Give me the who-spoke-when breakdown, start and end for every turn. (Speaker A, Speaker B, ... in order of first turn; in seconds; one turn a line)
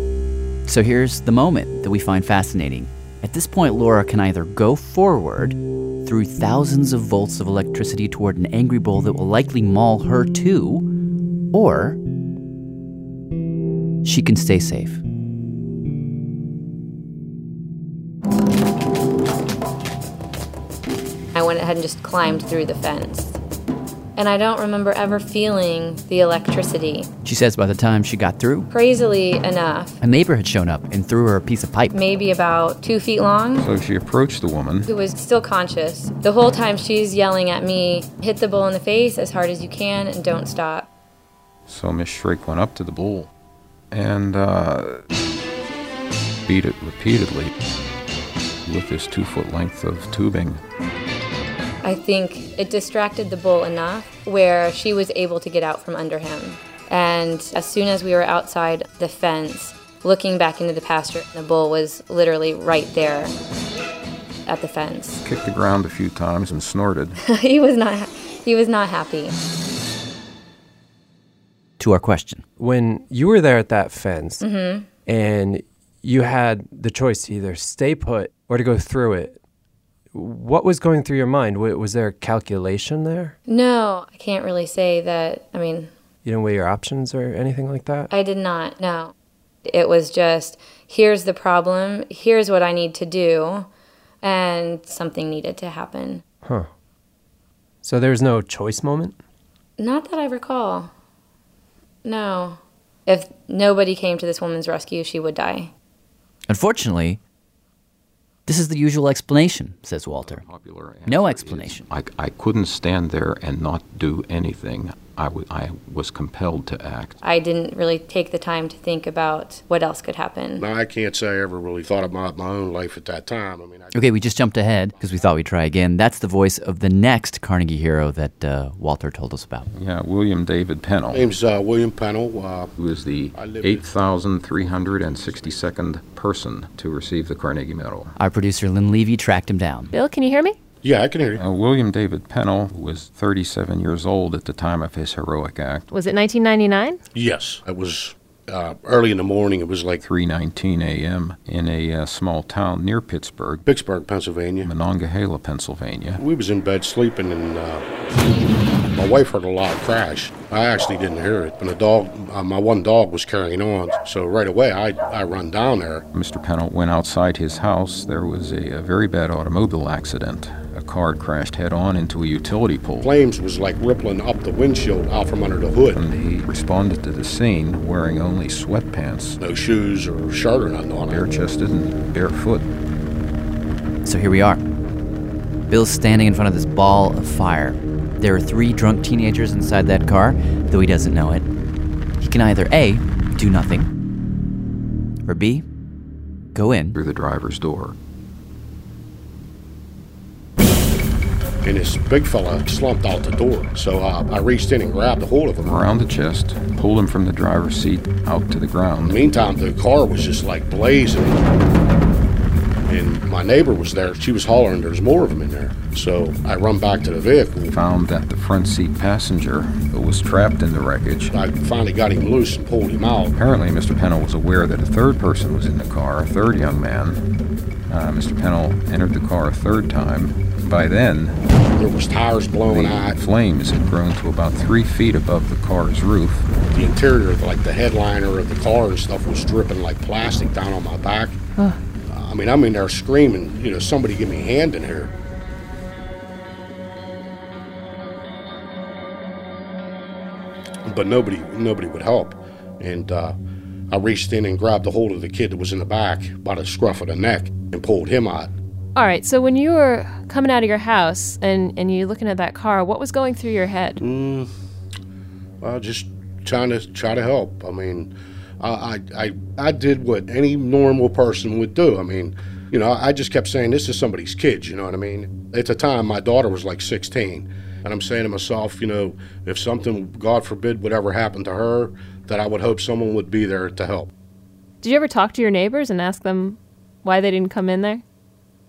Speaker A: 0.7-10.9
Speaker A: 11.5-12.0
Speaker A: 14.0-15.0
Speaker B: 21.3-23.4
Speaker B: 24.1-27.1
Speaker A: 27.2-28.7
Speaker B: 28.7-30.0
Speaker A: 30.0-32.0
Speaker B: 31.9-33.7
Speaker C: 33.5-34.9
Speaker B: 34.9-40.9
Speaker C: 41.7-43.3
Speaker C: 43.9-45.0
Speaker C: 46.5-47.5
Speaker C: 48.6-50.6
Speaker B: 51.8-63.3
Speaker B: 64.5-65.2
Speaker C: 65.2-67.2
Speaker B: 67.2-69.3
Speaker A: 71.8-72.4
Speaker D: 72.6-74.4
Speaker B: 74.4-74.9
Speaker D: 75.0-79.3
Speaker D: 80.1-83.3
Speaker B: 83.5-85.9
Speaker D: 86.2-88.1
Speaker B: 88.1-89.1
Speaker B: 89.7-93.7
Speaker B: 94.2-96.2
Speaker D: 97.8-99.2
Speaker B: 99.8-100.9
Speaker B: 102.0-105.7
Speaker A: 106.5-107.2
Speaker A: 108.5-110.4
Speaker C: 110.2-117.2
Speaker A: 111.0-111.9
Speaker B: 117.2-120.7
Speaker E: 120.6-124.0
Speaker A: 123.9-129.7
Speaker E: 124.8-125.2
Speaker C: 129.7-131.3
Speaker E: 131.1-132.7
Speaker C: 132.8-138.1
Speaker E: 133.3-133.8
Speaker E: 134.6-135.7
Speaker A: 138.2-139.9
Speaker F: 139.9-140.6
Speaker E: 140.8-141.4
Speaker C: 141.3-145.8
Speaker F: 145.9-147.0
Speaker E: 147.1-150.0
Speaker C: 150.0-153.7
Speaker E: 153.7-154.7
Speaker C: 154.6-156.2
Speaker E: 156.2-157.8
Speaker E: 158.9-166.0
Speaker C: 166.1-173.1
Speaker E: 173.0-176.0
Speaker C: 175.9-179.4
Speaker E: 179.4-181.2
Speaker C: 181.1-182.7
Speaker A: 184.0-184.6
Speaker A: 185.7-191.4
Speaker A: 192.2-193.9
Speaker A: 195.2-195.6
Speaker A: 196.5-196.9
Speaker C: 196.9-197.9
Speaker E: 201.6-205.7
Speaker C: 205.6-209.2
Speaker E: 209.0-211.4
Speaker E: 212.9-217.7
Speaker C: 217.7-221.3
Speaker E: 221.3-223.3
Speaker C: 223.3-227.2
Speaker C: 227.9-231.4
Speaker E: 231.8-233.2
Speaker C: 232.7-236.5
Speaker E: 236.7-241.4
Speaker E: 242.1-245.1
Speaker E: 250.8-253.3
Speaker E: 253.9-258.5
Speaker F: 258.9-264.0
Speaker E: 264.0-264.5
Speaker E: 265.6-284.1
Speaker F: 284.8-288.0